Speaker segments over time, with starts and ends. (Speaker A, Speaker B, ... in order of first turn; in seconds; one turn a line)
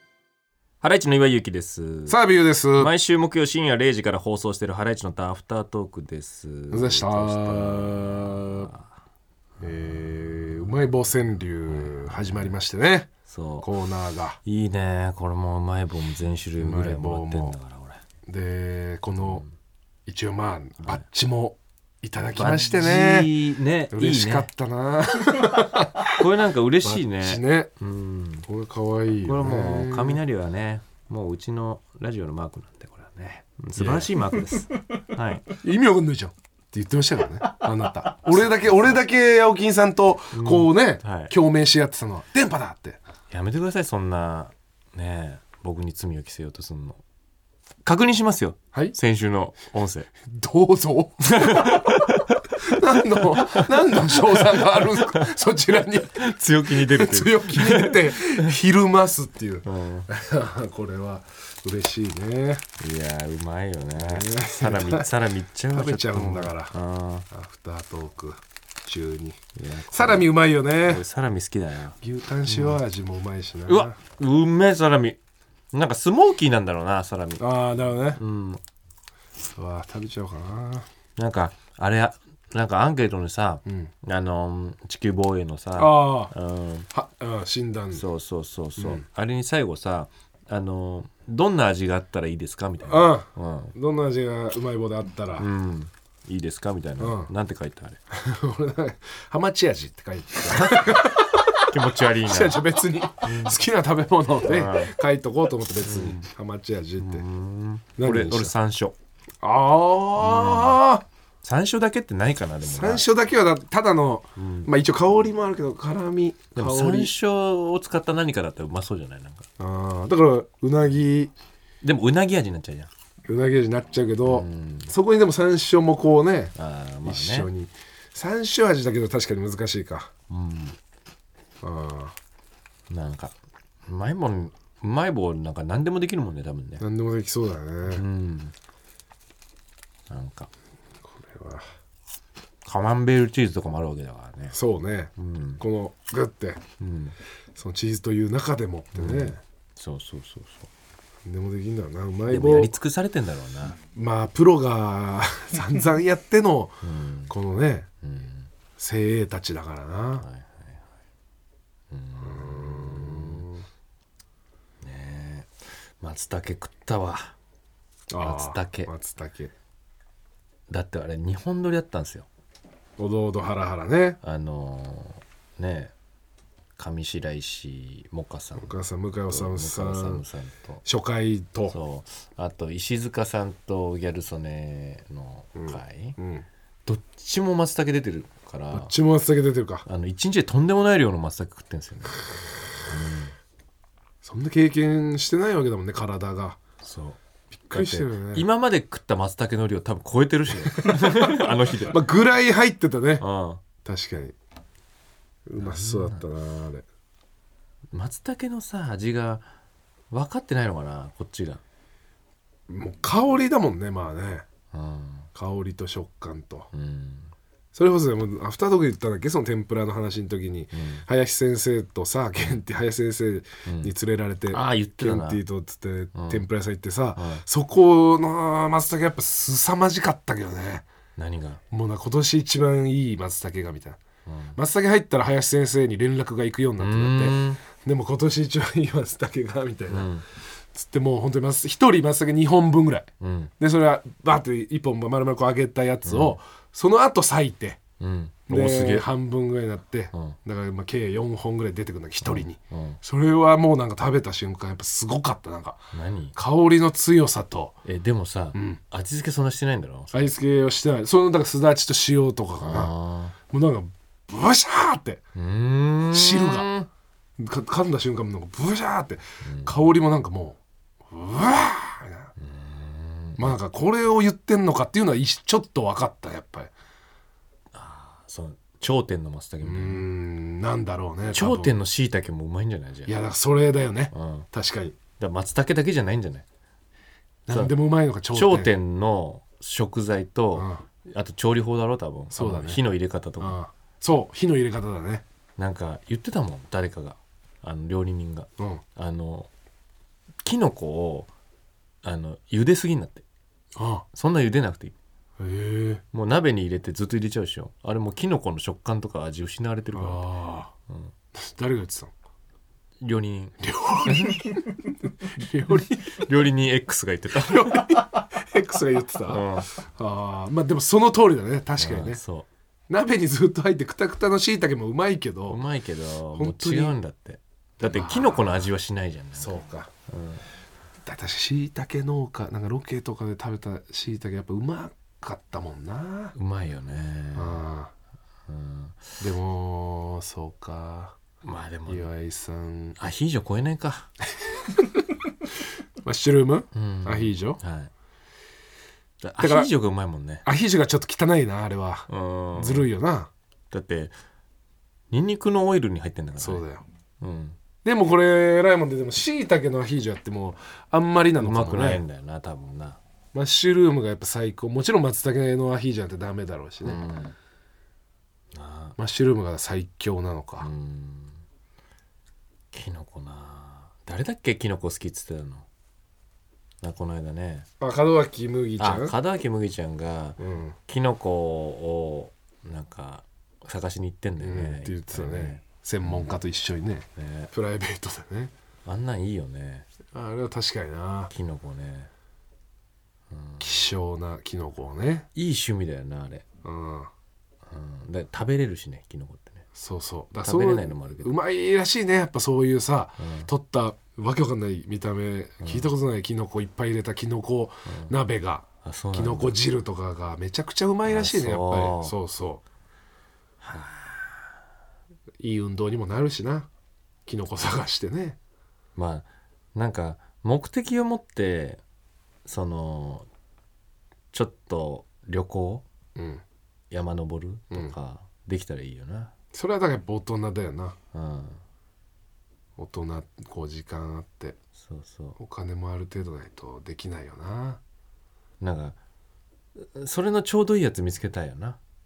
Speaker A: 0.8-2.2
Speaker B: 2.1-2.9
Speaker A: 2.8-8.9
Speaker B: 6.7-8.7
Speaker B: 9.6-14.4
Speaker A: 9.7-10.7
Speaker A: 11.7-12.5
Speaker A: 13.3-13.7
Speaker A: 14.4-18.0
Speaker B: 16.6-17.6
Speaker B: 18.3-19.4
Speaker A: 19.2-19.5
Speaker B: 20.1-23.3
Speaker A: 22.3-24.5
Speaker B: 23.9-26.2
Speaker A: 26.2-28.4
Speaker B: 26.8-27.7
Speaker B: 28.4-30.2
Speaker A: 29.2-35.5
Speaker B: 33.8-34.1
Speaker B: 35.6-43.0
Speaker A: 38.3-39.0
Speaker A: 40.3-41.3
Speaker A: 43.3-47.0
Speaker A: 47.8-50.1
Speaker B: 50.2-62.6
Speaker A: 51.2-58.5
Speaker A: 59.6-60.1
Speaker A: 62.8-67.2
Speaker B: 64.0-65.1
Speaker B: 65.7-66.8
Speaker B: 67.3-71.0
Speaker A: 69.6-70.3
Speaker A: 70.8-72.8
Speaker B: 72.0-74.0
Speaker A: 73.7-75.2
Speaker A: 75.7-77.5
Speaker B: 77.4-78.2
Speaker A: 78.2-78.6
Speaker B: 79.4-80.9
Speaker A: 81.2-86.9
Speaker B: 83.7-83.9
Speaker B: 85.8-86.3
Speaker B: 86.9-88.0
Speaker A: 87.9-93.7
Speaker B: 88.8-89.0
Speaker B: 92.9-95.5
Speaker A: 95.4-98.0
Speaker B: 97.0-97.3
Speaker B: 98.1-107.2
Speaker A: 101.7-102.6
Speaker A: 103.2-103.5
Speaker A: 104.5-105.0
Speaker A: 105.8-106.2
Speaker A: 107.0-109.0
Speaker B: 108.0-108.5
Speaker B: 109.4-111.0
Speaker A: 110.2-110.8
Speaker A: 111.4-113.1
Speaker B: 112.6-117.1
Speaker A: 114.4-114.7
Speaker A: 116.5-119.5
Speaker B: 119.6-121.3
Speaker A: 121.8-122.9
Speaker B: 123.2-126.5
Speaker A: 124.3-124.9
Speaker A: 126.5-127.5
Speaker B: 127.0-130.1
Speaker A: 130.3-130.8
Speaker B: 131.6-132.2
Speaker A: 132.9-133.3
Speaker A: 133.8-136.8
Speaker B: 136.8-138.0
Speaker A: 137.8-138.5
Speaker A: 140.1-140.5
Speaker B: 141.1-141.6
Speaker A: 142.6-144.6
Speaker B: 144.5-146.6
Speaker A: 145.2-145.6
Speaker A: 146.8-147.2
Speaker B: 147.6-149.4
Speaker A: 148.9-150.7
Speaker B: 151.2-152.7
Speaker A: 152.3-153.8
Speaker B: 153.9-157.9
Speaker A: 156.8-157.3
Speaker A: 158.0-158.5
Speaker B: 158.8-160.3
Speaker A: 160.2-160.8
Speaker A: 161.9-163.5
Speaker B: 162.2-163.7
Speaker A: 164.8-167.3
Speaker B: 168.1-169.5
Speaker A: 168.2-168.9
Speaker A: 170.7-172.3
Speaker B: 173.0-174.2
Speaker A: 174.2-175.9
Speaker A: 176.8-178.8
Speaker B: 178.6-180.2
Speaker A: 179.3-180.8
Speaker B: 180.8-181.8
Speaker A: 181.7-186.2
Speaker B: 185.5-186.4
Speaker A: 186.8-188.9
Speaker B: 188.7-189.8
Speaker A: 189.8-192.2
Speaker A: 192.8-193.3
Speaker B: 194.2-196.6
Speaker A: 196.8-197.2
Speaker B: 197.6-198.5
Speaker A: 197.7-202.0
Speaker B: 200.8-201.3
Speaker B: 201.9-203.2
Speaker A: 203.2-203.6
Speaker B: 203.8-204.3
Speaker B: 205.5-206.8
Speaker A: 205.6-206.2
Speaker A: 207.9-209.5
Speaker A: 210.1-211.6
Speaker B: 212.7-214.4
Speaker A: 214.7-215.3
Speaker B: 215.3-216.7
Speaker A: 216.7-217.3
Speaker B: 217.7-230.8
Speaker A: 220.7-221.0
Speaker A: 223.7-223.9
Speaker A: 224.5-225.4
Speaker A: 226.1-226.4
Speaker A: 227.2-227.4
Speaker A: 231.2-231.6
Speaker B: 231.7-234.0
Speaker A: 234.3-234.6
Speaker B: 234.5-240.2
Speaker A: 236.8-237.6
Speaker A: 239.9-240.2
Speaker B: 240.7-247.8
Speaker A: 243.2-243.5
Speaker A: 246.0-246.3
Speaker A: 248.0-249.1
Speaker B: 248.5-255.8
Speaker A: 252.2-253.0
Speaker A: 255.9-256.4
Speaker B: 256.4-257.8
Speaker A: 257.9-260.2
Speaker B: 258.6-258.8
Speaker B: 260.1-262.9
Speaker A: 262.6-263.4
Speaker B: 263.5-265.2
Speaker A: 265.4-266.9
Speaker B: 266.1-266.7
Speaker B: 267.4-272.3
Speaker A: 269.4-269.8
Speaker A: 272.4-273.6
Speaker B: 273.4-276.7
Speaker A: 277.7-280.1
Speaker B: 279.6-281.8
Speaker A: 281.3-283.2
Speaker B: 283.1-285.0
Speaker A: 284.1-284.5
Speaker A: 285.2-286.4
Speaker B: 287.5-288.7
Speaker A: 288.3-293.6
Speaker B: 290.6-290.8
Speaker B: 292.3-292.8
Speaker B: 293.4-295.2
Speaker A: 295.6-299.5
Speaker A: 300.4-301.3
Speaker A: 302.0-303.2
Speaker B: 303.8-304.1
Speaker A: 304.1-304.9
Speaker B: 305.4-306.0
Speaker A: 306.1-310.3
Speaker B: 309.9-310.7
Speaker A: 310.9-311.1
Speaker B: 311.3-312.1
Speaker A: 313.0-313.6
Speaker B: 313.6-316.2
Speaker A: 316.2-317.9
Speaker B: 317.3-322.2
Speaker A: 319.3-319.7
Speaker A: 321.8-322.5
Speaker B: 322.9-325.6
Speaker A: 325.5-330.4
Speaker B: 326.4-327.0
Speaker B: 327.8-328.7
Speaker B: 329.4-329.9
Speaker B: 331.1-336.4
Speaker A: 336.4-337.6
Speaker B: 337.4-337.9
Speaker A: 338.5-339.2
Speaker B: 339.2-341.2
Speaker A: 341.4-342.1
Speaker B: 341.9-343.0
Speaker A: 343.0-344.1
Speaker B: 344.4-345.0
Speaker B: 346.0-347.6
Speaker A: 346.7-347.9
Speaker A: 349.2-350.4
Speaker B: 349.4-349.7
Speaker B: 350.4-353.3
Speaker A: 352.1-352.9
Speaker A: 353.7-354.2
Speaker A: 355.1-356.6
Speaker B: 356.4-356.9
Speaker A: 357.2-357.6
Speaker B: 357.8-362.0
Speaker A: 361.4-363.0
Speaker B: 363.3-367.0
Speaker A: 366.8-367.4
Speaker A: 368.5-369.0
Speaker B: 369.0-370.7
Speaker A: 370.6-371.4
Speaker A: 372.7-375.7
Speaker A: 376.8-377.7
Speaker B: 377.8-379.1
Speaker A: 378.8-386.3
Speaker B: 380.4-380.8
Speaker B: 384.4-388.5
Speaker A: 387.2-387.5
Speaker A: 388.9-389.9
Speaker B: 390.1-391.3
Speaker A: 391.3-392.1
Speaker A: 393.3-393.7
Speaker B: 393.6-395.3
Speaker A: 395.4-396.4
Speaker B: 396.6-397.1
Speaker A: 397.7-399.6
Speaker B: 399.8-412.6
Speaker A: 400.4-401.3
Speaker A: 403.2-403.5
Speaker A: 405.6-405.9
Speaker A: 407.9-408.2
Speaker A: 408.8-409.6
Speaker A: 411.1-412.1
Speaker A: 413.6-414.5
Speaker B: 415.4-416.7
Speaker B: 417.2-418.4
Speaker A: 419.0-421.8
Speaker A: 422.4-423.3
Speaker A: 424.3-425.9
Speaker B: 426.2-426.4
Speaker A: 426.9-429.3
Speaker B: 429.5-431.0
Speaker A: 431.1-431.6
Speaker B: 432.8-434.6
Speaker A: 434.8-435.4
Speaker B: 435.4-437.8
Speaker A: 438.6-439.0
Speaker A: 439.8-441.8